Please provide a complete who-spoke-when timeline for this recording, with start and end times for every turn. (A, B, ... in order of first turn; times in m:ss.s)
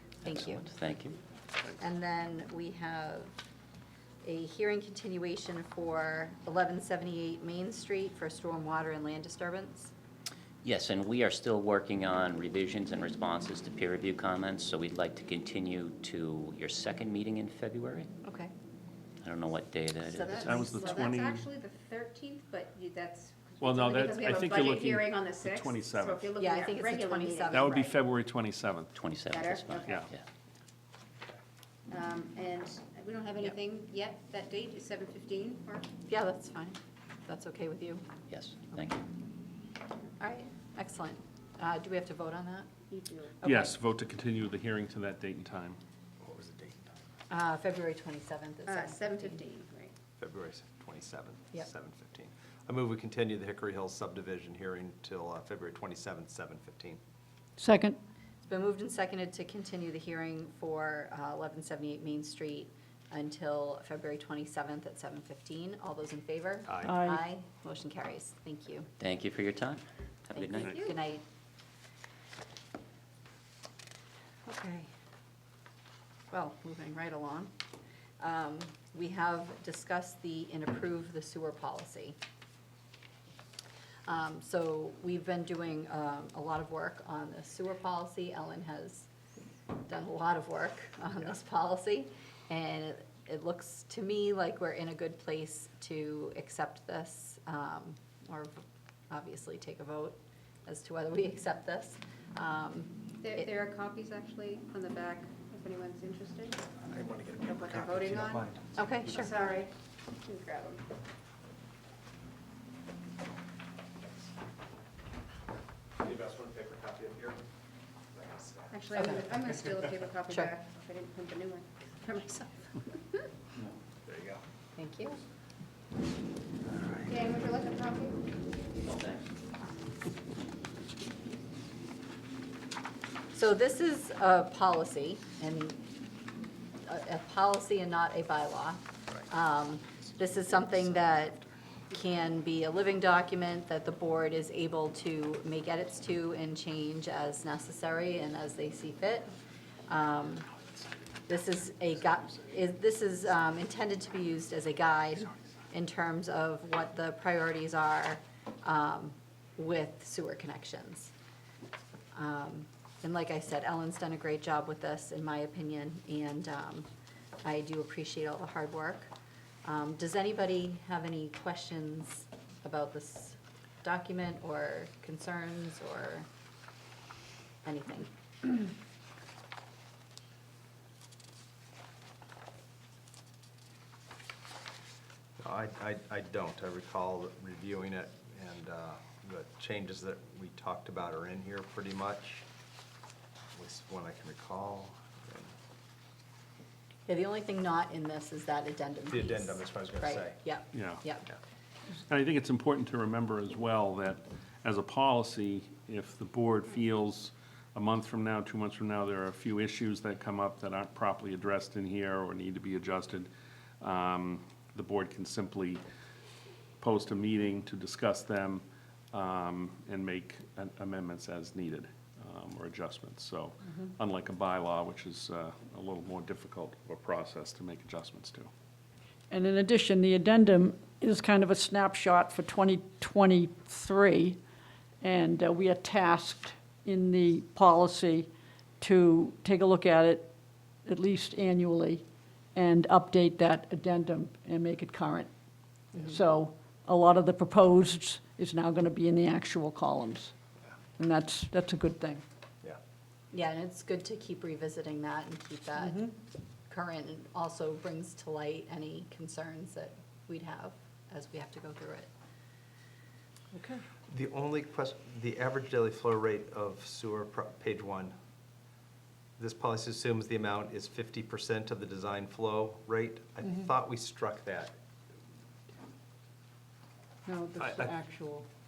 0:00.2-0:01.2 A
0:00.2-0:00.7 B
0:01.8-0:03.4 B
0:04.2-0:09.9 B
0:10.6-0:18.1 A
0:18.2-0:18.5 B
0:19.2-0:20.6 A
0:20.1-0:21.1 B
0:20.1-0:27.9 C
0:20.3-0:21.5 D
0:23.6-0:26.4 D
0:26.4-0:27.9 B
0:27.5-0:28.9 D
0:28.9-0:30.2 A
0:29.3-0:30.1 C
0:31.9-0:35.9 C
0:36.1-0:38.1 B
0:38.3-0:39.0 A
0:40.2-0:42.7 B
0:42.9-0:43.4 C
0:43.4-0:43.7 B
0:43.4-0:45.8 D
0:46.2-0:47.0 E
0:47.3-0:49.4 B
0:48.7-0:49.9 C
0:50.2-0:57.0 E
0:57.6-0:58.0 F
0:58.4-1:08.9 B
1:06.7-1:07.0 E
1:06.8-1:07.2 F
1:09.0-1:10.8 A
1:10.3-1:11.2 B
1:10.6-1:11.0 C
1:14.5-1:14.9 B
1:16.3-1:17.5 B
1:18.2-1:22.2 B
1:24.1-1:29.1 B
1:29.9-1:43.5 B
1:43.2-1:46.6 C
1:46.8-1:49.4 E
1:47.5-1:48.5 C
1:48.8-1:49.4 B
1:49.1-1:50.8 C
1:54.0-1:54.3 E
1:56.0-1:57.4 E
1:58.1-1:59.5 E
1:58.7-2:02.5 C
2:04.1-2:04.4 E
2:04.8-2:05.2 B
2:07.1-2:08.2 C
2:08.8-2:09.2 A
2:13.3-2:15.8 B
2:16.9-2:29.3 B
2:20.0-2:21.3 E
2:29.9-2:30.5 B
2:31.3-2:41.1 B
2:42.1-2:46.9 B
2:47.4-2:49.1 B
2:49.6-2:56.3 B
2:57.6-2:58.5 B
3:05.4-3:12.4 E
3:13.5-3:15.5 E
3:17.1-3:21.3 B
3:19.1-3:20.4 E
3:20.7-3:21.0 D
3:22.1-3:33.3 D
3:33.8-3:35.8 D
3:36.8-3:48.5 D
3:49.3-3:54.4 F
3:55.0-4:00.3 F
4:00.8-4:02.0 F
4:02.6-4:05.3 F
4:05.9-4:10.3 F
4:11.0-4:12.2 F
4:13.3-4:16.1 B
4:15.8-4:16.1 F
4:16.7-4:22.1 B
4:23.5-4:23.8 F
4:24.1-4:28.2 E
4:29.4-4:34.8 E
4:37.3-4:38.5 F
4:37.6-4:38.0 E